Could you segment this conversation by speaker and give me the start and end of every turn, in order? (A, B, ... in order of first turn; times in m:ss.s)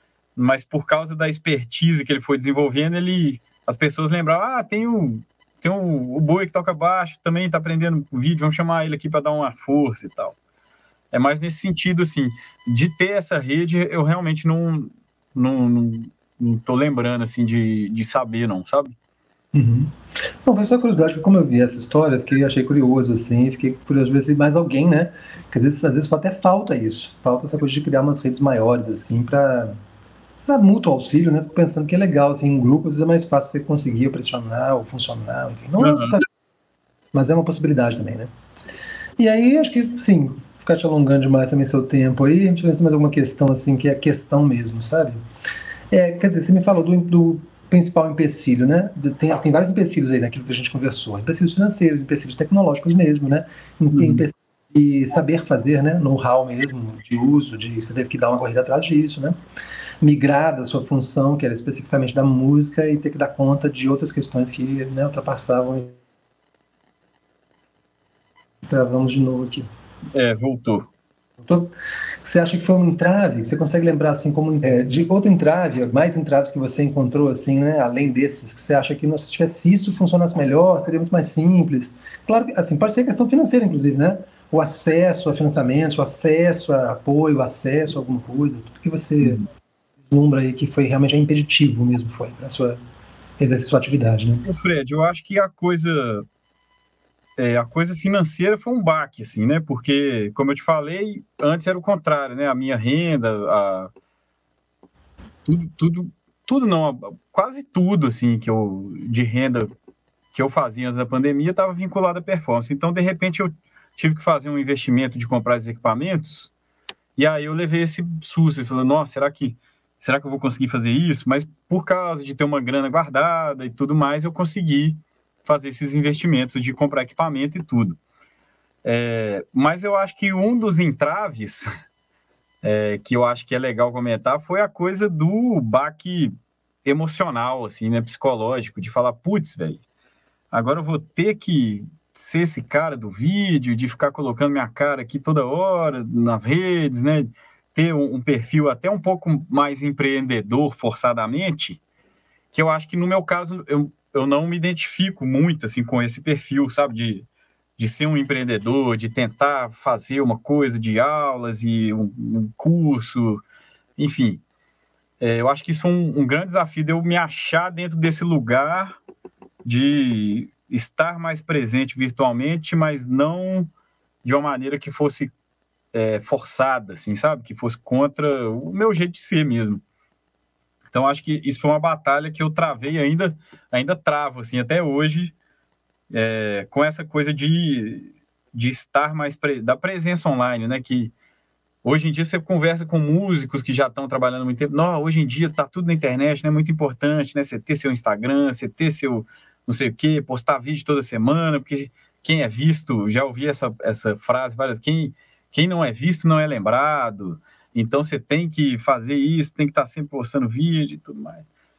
0:00.4-0:10.4 A
0:11.1-0:18.9 A
0:19.5-0:19.9 B
0:20.4-0:29.8 B
0:30.5-0:36.2 B
0:35.8-0:36.2 A
0:37.1-0:38.3 B
0:39.2-0:45.2 B
0:45.9-0:59.4 B
0:53.9-0:54.2 A
1:00.0-1:06.0 B
1:08.6-1:09.7 B
1:10.1-1:10.9 A
1:11.4-1:11.7 B
1:12.2-1:29.4 B
1:30.0-1:32.8 B
1:33.4-1:34.5 B
1:34.4-1:36.2 A
1:37.4-1:43.9 A
1:45.4-1:49.7 A
1:50.3-1:56.5 A
1:57.2-2:08.0 A
2:08.8-2:11.7 A
2:12.6-2:16.3 A
2:16.8-2:19.8 A
2:20.5-2:31.8 A
2:32.5-2:37.2 A
2:37.8-2:43.4 A
2:44.0-2:44.4 A
2:45.2-2:49.0 A
2:49.6-2:53.7 A
2:54.2-2:55.3 A
2:55.9-2:59.8 A
3:00.9-3:05.3 A
3:06.1-3:11.1 A
3:11.8-3:31.4 A